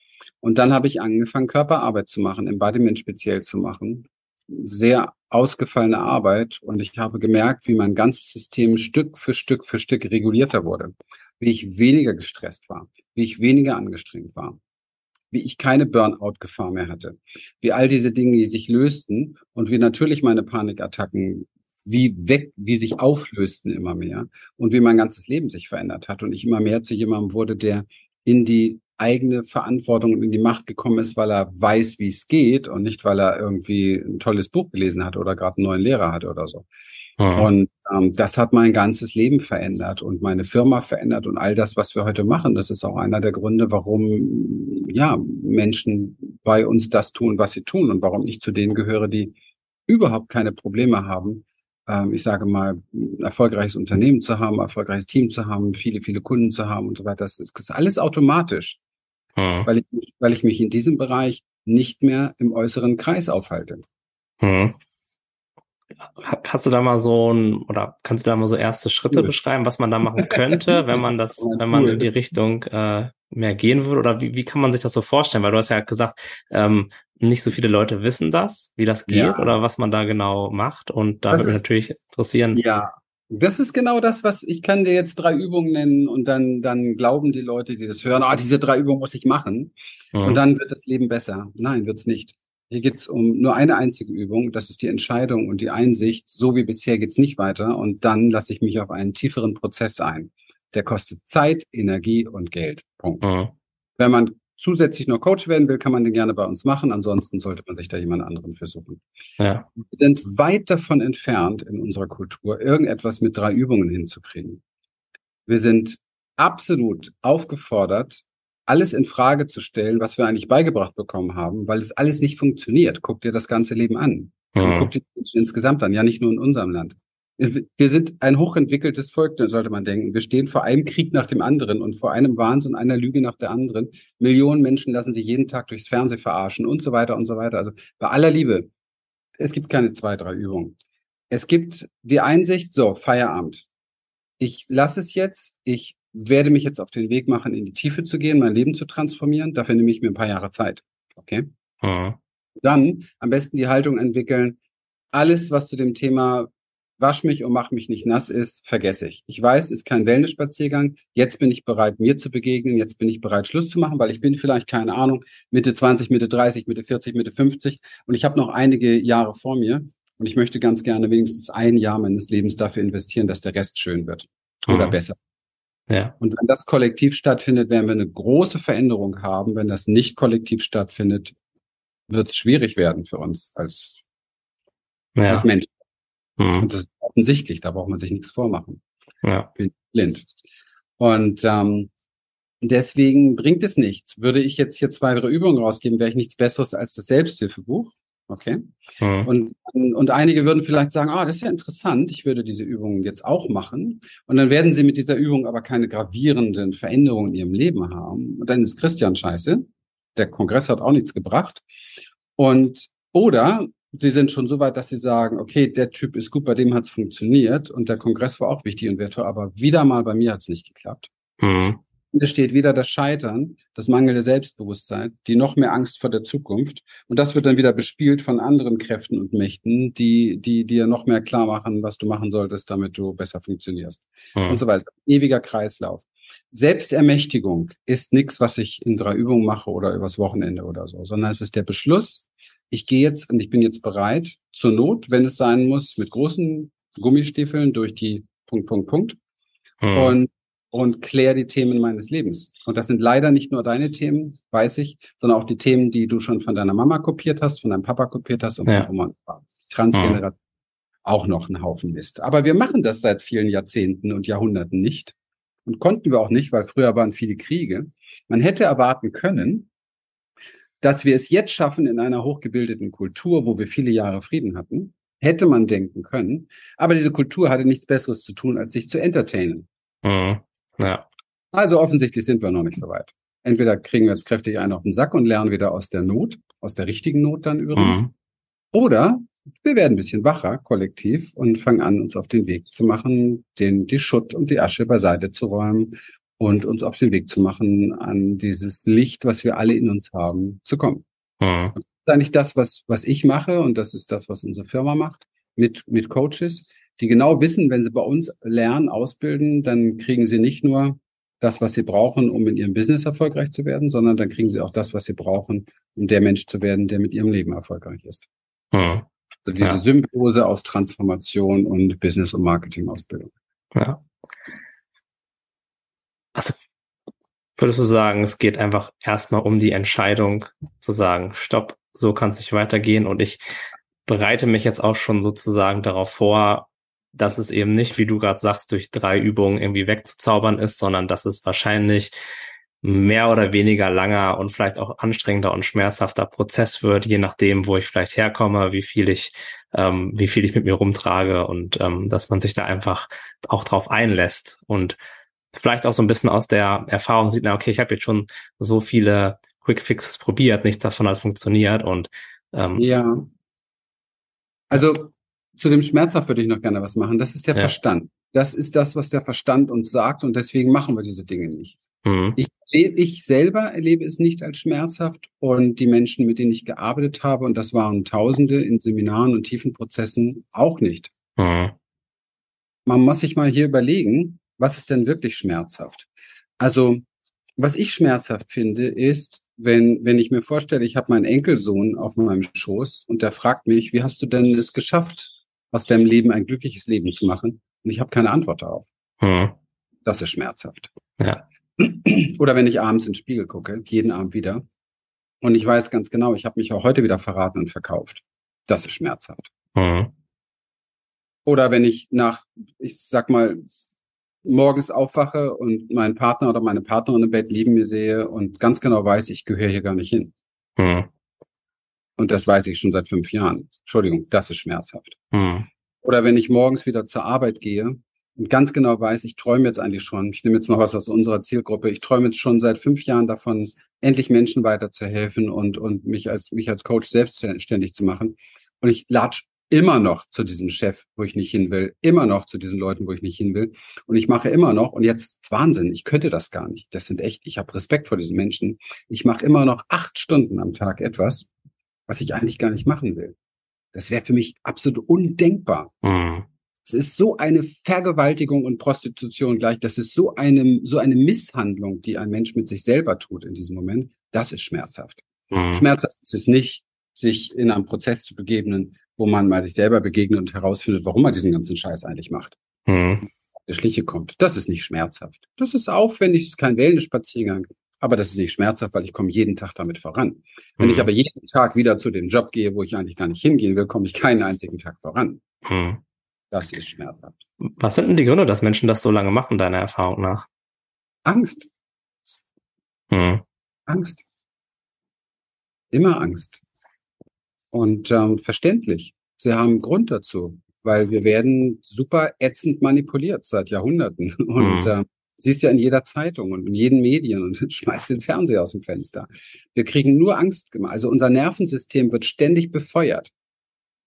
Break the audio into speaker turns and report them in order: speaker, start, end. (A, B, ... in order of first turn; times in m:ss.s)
0:00.4-0:14.6 A
0:15.3-0:36.6 A
0:37.2-0:37.5 B
0:37.3-0:49.3 A
0:49.9-0:58.8 A
0:59.4-0:59.7 B
0:59.6-1:03.8 A
1:04.4-1:04.8 B
1:06.1-1:22.6 B
1:10.2-1:12.1 A
1:19.1-1:19.5 A
1:21.3-1:21.6 A
1:22.5-1:43.3 A
1:30.1-1:30.4 B
1:43.2-1:43.5 B
1:44.0-1:49.0 A
1:49.4-1:49.7 B
1:49.8-1:54.6 A
1:55.5-2:18.7 A
2:04.6-2:04.9 B
2:19.4-2:20.8 A
2:21.3-2:23.7 A
2:24.4-2:31.5 A
2:31.8-2:32.2 B
2:32.6-2:34.6 A
2:35.1-2:55.2 A
2:54.7-2:55.0 B
2:55.9-2:56.1 B
2:56.2-3:01.3 A
3:02.1-3:04.0 A
3:05.2-3:05.4 B
3:05.3-3:05.7 A
3:06.4-3:06.7 B
3:06.6-3:08.8 A
3:09.2-3:09.5 B
3:09.6-3:10.3 A
3:11.0-3:11.9 A
3:12.6-3:18.6 A
3:19.0-3:19.3 B
3:19.2-3:31.6 A
3:32.4-3:41.1 A
3:41.4-3:41.8 B
3:42.1-4:09.2 A
4:09.8-4:10.2 B
4:09.9-4:20.4 A
4:19.9-4:20.2 B
4:21.0-4:25.1 A
4:25.6-4:29.7 A
4:30.8-4:39.7 A
4:40.0-4:41.0 B
4:41.5-4:48.0 A
4:47.8-4:48.1 B
4:48.7-5:01.0 A
5:01.4-5:01.7 B
5:01.8-5:18.3 A
5:18.7-5:19.1 B
5:19.4-5:23.3 A
5:23.7-5:24.0 B
5:27.6-5:33.4 B
5:34.0-5:42.2 B
5:42.8-5:55.0 B
5:55.5-6:02.8 B
6:02.8-6:03.3 A
6:04.7-6:11.8 A
6:12.0-6:12.4 B
6:12.4-6:21.1 A
6:21.4-6:21.7 B
6:22.8-6:26.1 A
6:26.6-6:27.0 A
6:27.6-6:38.9 A
6:39.2-6:39.5 B
6:40.0-6:40.9 A
6:41.8-6:44.6 A
6:45.4-6:49.5 A
6:49.7-6:50.1 B
6:51.4-6:53.6 A
6:54.4-7:00.3 A
7:00.8-7:01.1 B
7:02.2-7:05.2 A
7:05.3-7:05.7 B
7:06.0-7:31.5 A
7:32.1-7:33.3 A
7:33.9-7:35.9 A
7:36.0-7:36.4 B
7:36.8-7:52.6 A
7:45.5-7:45.8 B
7:52.8-7:53.2 B
7:53.5-8:05.4 A
8:00.8-8:01.1 B
8:05.6-8:06.0 B
8:06.5-8:07.3 A
8:07.6-8:10.5 B
8:11.2-8:11.7 A
8:13.1-8:13.4 B
8:13.9-8:14.2 A
8:15.9-8:16.6 A
8:17.7-8:33.3 A
8:24.6-8:24.9 B